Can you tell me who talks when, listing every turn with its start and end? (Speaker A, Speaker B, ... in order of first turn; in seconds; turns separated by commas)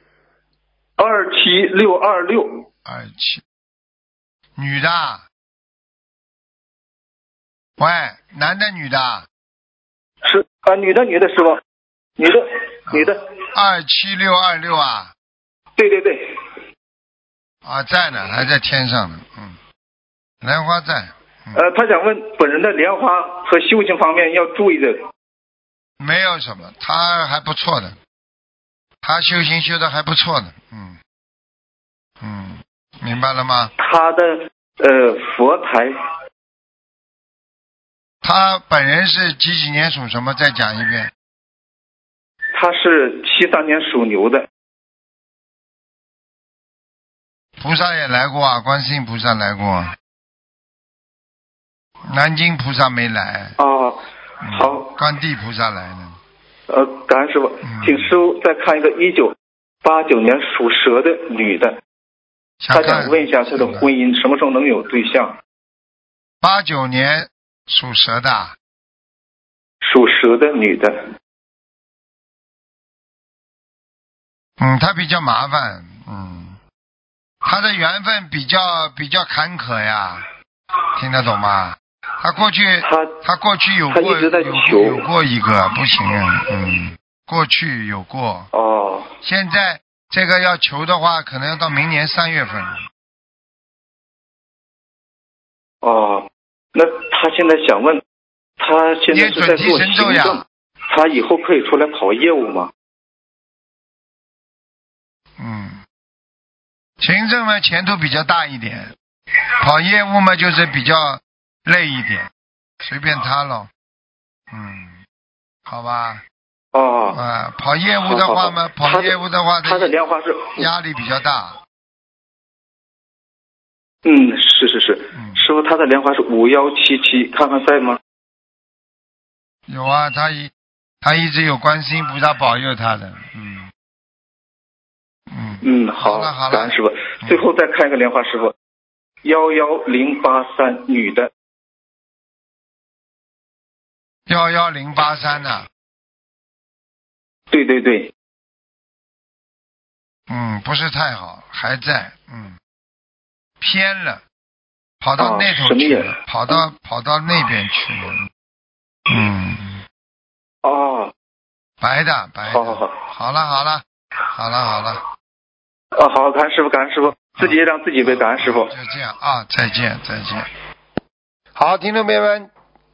Speaker A: 1.0-2.7, Speaker B: 2.9-3.4, Speaker B: 4.6-5.2, Speaker B: 7.8-9.3, Speaker A: 10.2-11.6, Speaker A: 12.2-13.2, Speaker B: 12.9-15.1, Speaker A: 15.8-16.3, Speaker B: 17.6-19.6, Speaker B: 20.4-21.6, Speaker A: 21.5-25.0, Speaker B: 26.0-28.0, Speaker B: 29.0-31.0, Speaker B: 32.2-33.7, Speaker A: 33.8-35.9, Speaker B: 38.2-41.1, Speaker A: 42.5-44.5, Speaker B: 47.6-49.9, Speaker B: 52.1-53.6, Speaker A: 53.6-54.9, Speaker B: 54.4-56.2, Speaker A: 56.7-61.8, Speaker B: 57.6-58.1, Speaker B: 62.6-63.9, Speaker A: 62.7-65.4, Speaker B: 66.4-68.6, Speaker A: 69.8-70.9, Speaker B: 74.6-76.6, Speaker B: 77.4-80.3, Speaker B: 81.0-88.5, Speaker A: 82.8-83.2, Speaker A: 83.9-85.1, Speaker A: 88.5-89.1, Speaker B: 89.2-92.8, Speaker A: 95.8-98.0, Speaker A: 98.6-102.7, Speaker B: 99.1-100.4, Speaker B: 105.4-105.8, Speaker B: 107.0-108.9, Speaker B: 109.6-112.3, Speaker B: 112.8-113.7, Speaker B: 114.5-115.0, Speaker B: 115.7-116.2, Speaker A: 116.7-117.2, Speaker B: 117.1-120.0, Speaker A: 118.0-120.7, Speaker B: 120.5-121.6, Speaker A: 124.0-128.0, Speaker B: 125.2-125.5, Speaker B: 129.7-133.7, Speaker B: 135.3-137.4, Speaker A: 135.6-138.5, Speaker A: 139.2-141.3, Speaker B: 144.3-145.7, Speaker A: 147.5-148.1, Speaker B: 150.3-152.6, Speaker B: 153.6-154.2, Speaker B: 155.0-158.3, Speaker A: 155.2-156.2, Speaker B: 159.1-159.8, Speaker A: 160.6-161.1, Speaker B: 161.8-165.0, Speaker A: 162.5-163.0, Speaker A: 165.9-168.7, Speaker B: 167.3-170.5, Speaker B: 171.6-172.5